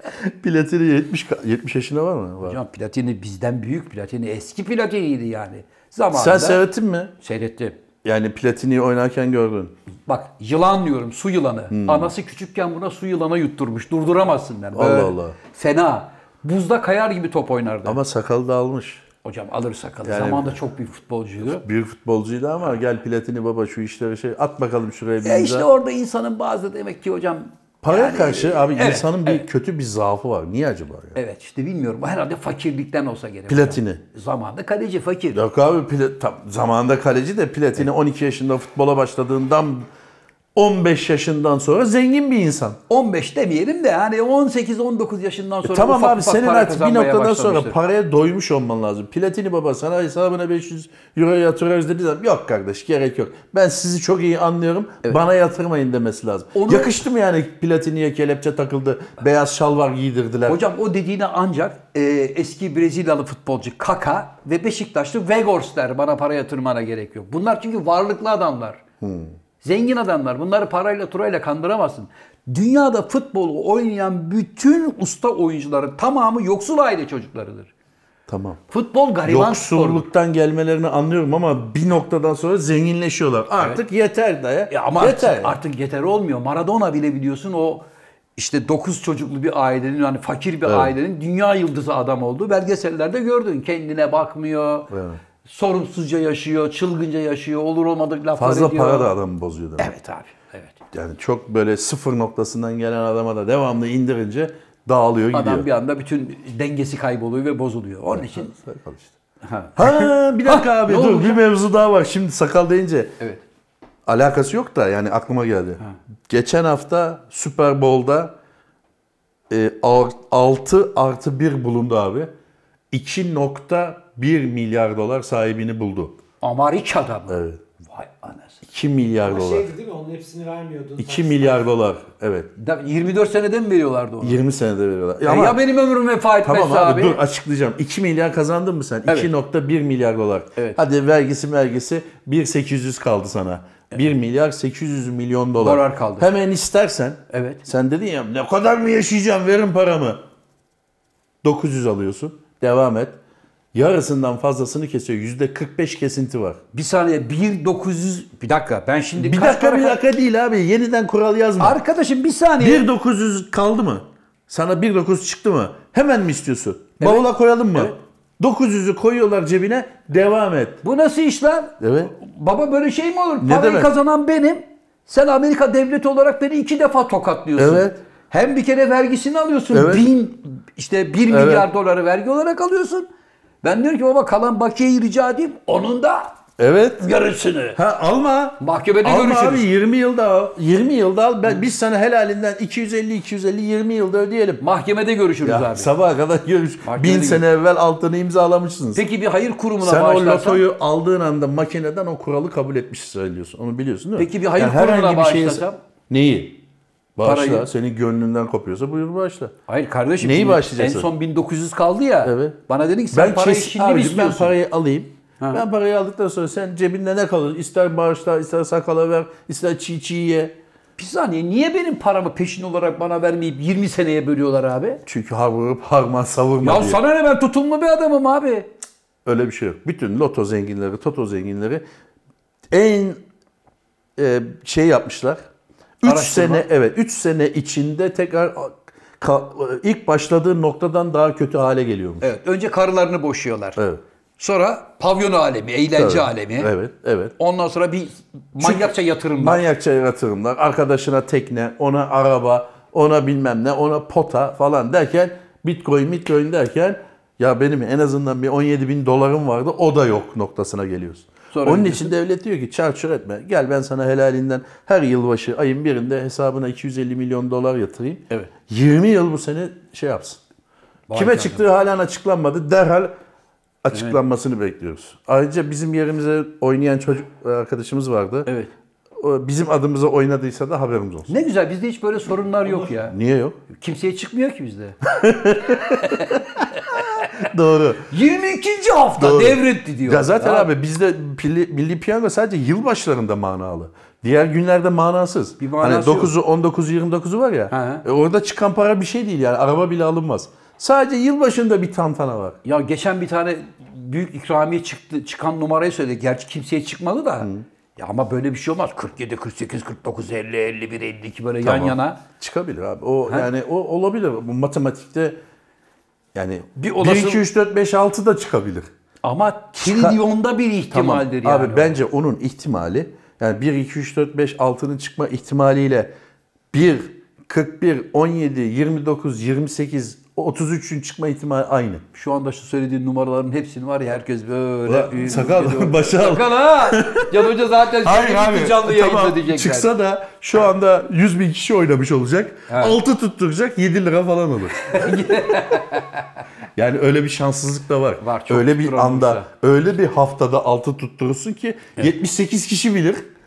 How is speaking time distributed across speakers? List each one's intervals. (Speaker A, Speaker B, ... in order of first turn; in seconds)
Speaker A: 0.1-2.6, 6.1-7.1, 8.0-9.7, 11.7-12.1, 14.7-15.3, 17.8-19.0, 20.0-20.6, 21.4-25.7, 27.8-31.2, 33.5-34.0, 35.3-39.9, 40.5-42.8, 45.6-60.6, 69.0-69.3, 78.3-78.6, 79.2-85.6, 90.6-90.9, 94.9-95.2, 98.4-99.9, 100.9-105.7, 108.1-109.2, 109.8-113.2, 114.0-118.3, 119.5-122.3, 122.9-126.2, 127.3-127.6, 128.7-129.7, 131.0-132.5, 134.2-135.6, 136.4-150.2, 151.4-153.2, 153.7-156.6, 159.2-161.8, 162.6-170.8, 171.8-172.1, 173.4-173.9, 177.6-178.0, 179.7-180.1, 181.3-181.7, 186.6-187.0, 187.7-194.6, 195.4-199.0, 199.8-206.6, 207.2-209.5, 210.2-211.1, 212.2-212.6, 213.1-220.5, 225.1-227.0, 229.2-231.8, 232.7-233.2, 234.2-235.5, 236.0-242.3, 243.8-244.0, 245.9-247.3, 248.6-270.4, 271.1-273.1, 273.8-278.5, 279.2-281.3, 282.6-283.6, 285.0-288.1, 289.2-302.6, 311.6-315.4, 316.3-318.9, 319.8-320.2, 320.9-326.1, 326.7-332.0, 334.9-345.4, 346.8-353.2
Speaker B: 2.4-6.6, 7.2-7.8, 10.1-18.0, 19.2-21.6, 25.2-29.5, 31.1-35.4, 42.9-47.8, 56.5-57.0, 60.5-68.8, 69.6-77.7, 78.7-80.1, 84.7-87.8, 88.3-94.9, 95.4-99.1, 99.8-100.8, 105.3-108.5, 109.4-111.4, 126.4-128.6, 132.6-134.4, 135.2-137.2, 145.6-146.3, 147.3-147.6, 156.7-160.0, 161.6-162.8, 167.0-167.9, 170.8-183.1, 183.6-186.4, 187.0-187.8, 188.6-189.7, 194.6-195.9, 196.8-197.4, 198.9-200.6, 204.2-205.8, 207.2-207.7, 209.7-214.5, 221.0-225.0, 226.6-228.7, 236.0-236.7, 242.2-243.8, 244.4-246.7, 247.4-249.6, 261.5-262.1, 271.1-271.6, 273.9-274.2, 278.4-278.7, 281.3-283.1, 283.7-285.0, 285.9-287.3, 288.1-290.7, 295.6-296.3, 297.7-298.0, 302.6-312.2, 316.8-317.4, 319.2-322.0, 332.1-339.9, 342.7-343.0, 344.9-346.4, 348.2-349.5
Speaker C: 129.2-131.7